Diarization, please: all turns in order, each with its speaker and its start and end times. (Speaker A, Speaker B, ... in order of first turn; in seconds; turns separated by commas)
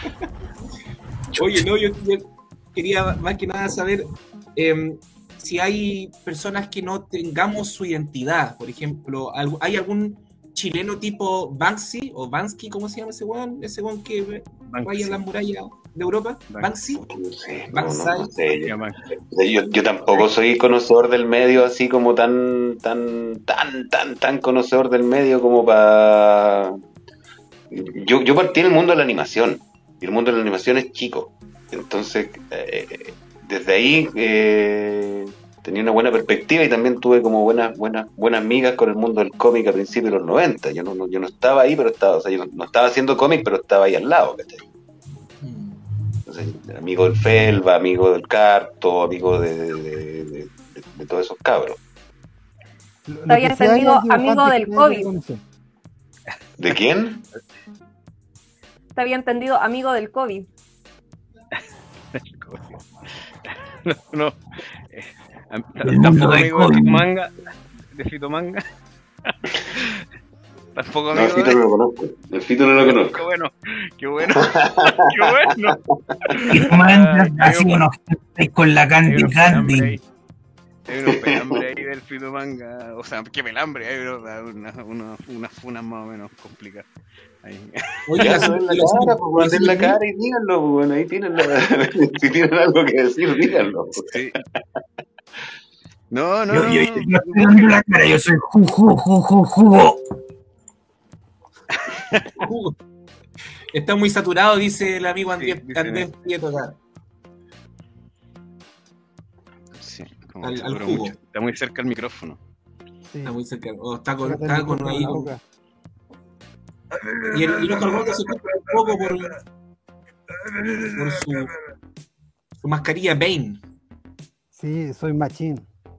Speaker A: 1.3-17.0, Speaker B: 14.7-15.2, Speaker B: 16.5-17.0, Speaker C: 17.1-26.7, Speaker A: 17.7-18.3, Speaker B: 18.6-19.0, Speaker C: 27.7-44.6, Speaker A: 45.4-45.8, Speaker C: 46.2-51.8, Speaker D: 53.1-55.4, Speaker E: 53.3-55.1, Speaker C: 56.6-57.2, Speaker E: 59.0-60.5, Speaker B: 62.1-62.8, Speaker B: 63.4-67.3, Speaker F: 65.8-67.0, Speaker B: 67.9-68.6, Speaker B: 69.3-70.0, Speaker B: 70.7-71.6, Speaker C: 71.1-73.2, Speaker B: 72.8-75.8, Speaker C: 74.3-75.7, Speaker B: 76.3-77.8, Speaker F: 76.5-80.0, Speaker B: 79.0-80.0, Speaker B: 80.9-86.9, Speaker C: 81.1-81.6, Speaker B: 87.4-88.4, Speaker A: 88.1-90.0, Speaker C: 88.2-94.1, Speaker B: 93.9-94.4, Speaker B: 96.1-97.8, Speaker F: 96.5-100.0, Speaker B: 101.7-102.3, Speaker A: 102.4-102.7, Speaker A: 103.7-106.8, Speaker B: 105.4-106.1, Speaker B: 109.8-112.4, Speaker A: 110.4-111.2, Speaker D: 113.1-113.4, Speaker A: 113.2-115.3, Speaker D: 114.2-115.4, Speaker F: 116.9-118.5, Speaker A: 117.3-119.4, Speaker F: 120.4-121.0, Speaker A: 120.9-121.5, Speaker A: 122.6-123.6, Speaker D: 124.5-125.7